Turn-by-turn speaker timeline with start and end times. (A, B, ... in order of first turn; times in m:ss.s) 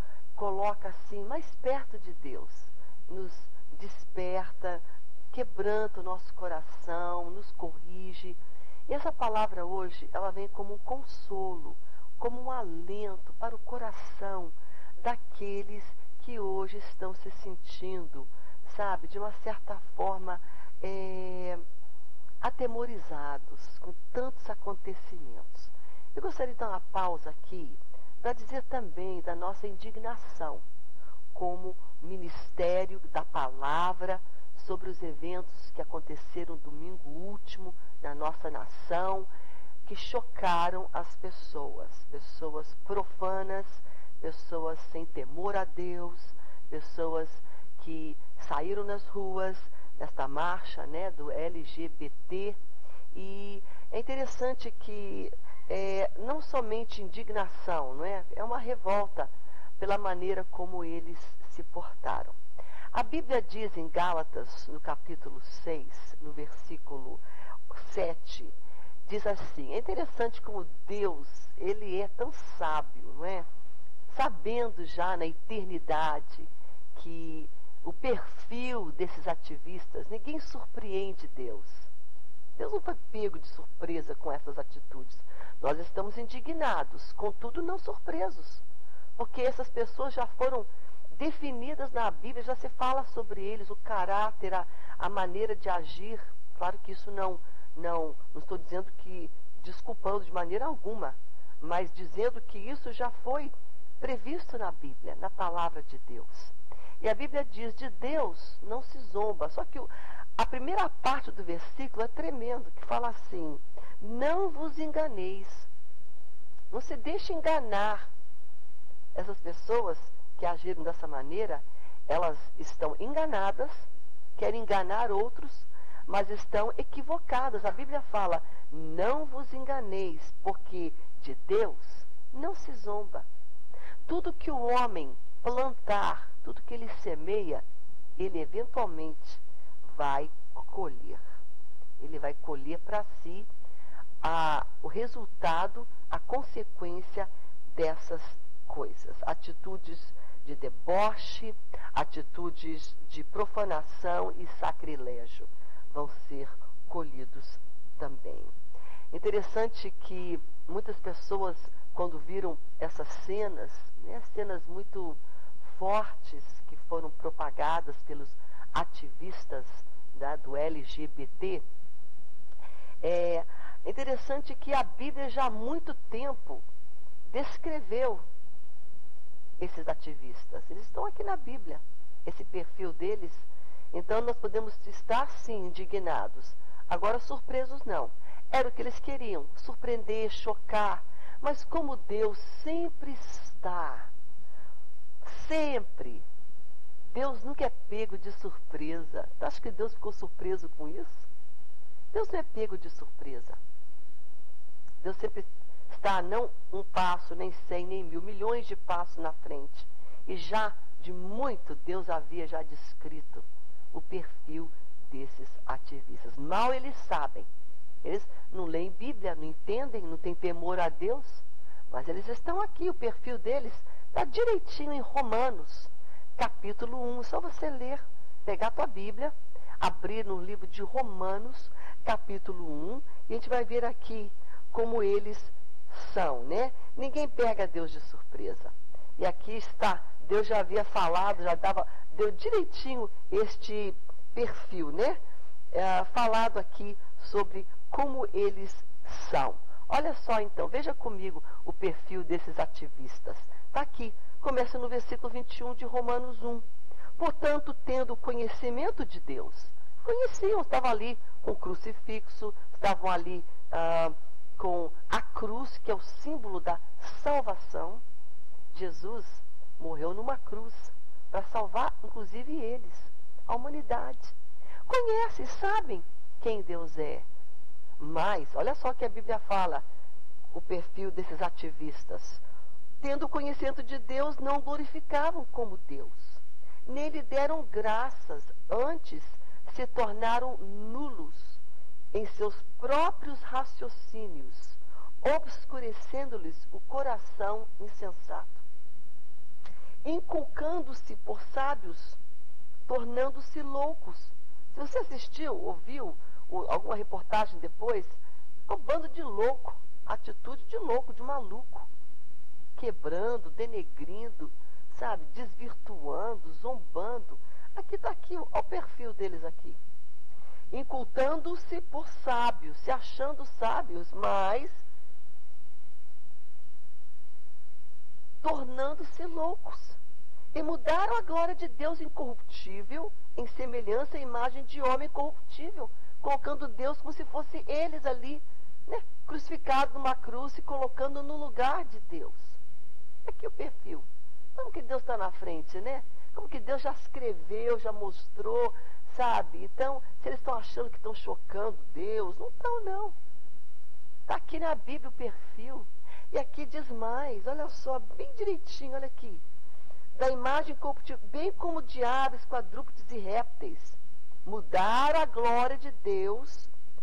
0:00.3-0:21.6 A
0:22.4-0:30.6 A
0:31.3-0:39.3 A
0:39.8-0:52.6 A
0:53.1-1:02.4 A
1:02.9-1:08.5 A
1:09.0-1:13.4 A
1:14.1-1:21.9 A
1:22.6-1:28.6 A
1:29.2-1:55.7 A
1:56.7-1:58.1 A
1:59.1-2:13.2 A
2:14.1-2:17.6 A
2:18.2-2:21.2 A
2:22.0-2:23.5 A
2:24.2-2:38.5 A
2:39.1-2:51.6 A
2:53.0-2:56.6 A
2:57.3-2:58.2 A
2:59.6-3:14.1 A
3:15.2-3:16.2 A
3:17.1-3:21.3 A
3:22.1-3:23.6 A
3:25.0-3:37.5 A
3:38.0-4:05.2 A
4:05.7-4:16.6 A
4:17.2-4:28.0 A
4:28.7-4:34.3 A
4:34.9-4:37.2 A
4:38.0-4:39.8 A
4:40.5-4:42.4 A
4:43.0-4:51.6 A
4:52.1-4:58.6 A
5:00.0-5:02.2 A
5:02.9-5:11.9 A
5:12.8-5:19.8 A
5:20.7-5:24.8 A
5:28.4-5:30.0 A
5:30.5-5:42.6 A
5:43.2-5:53.1 A
5:54.3-5:59.4 A
6:00.1-6:06.7 A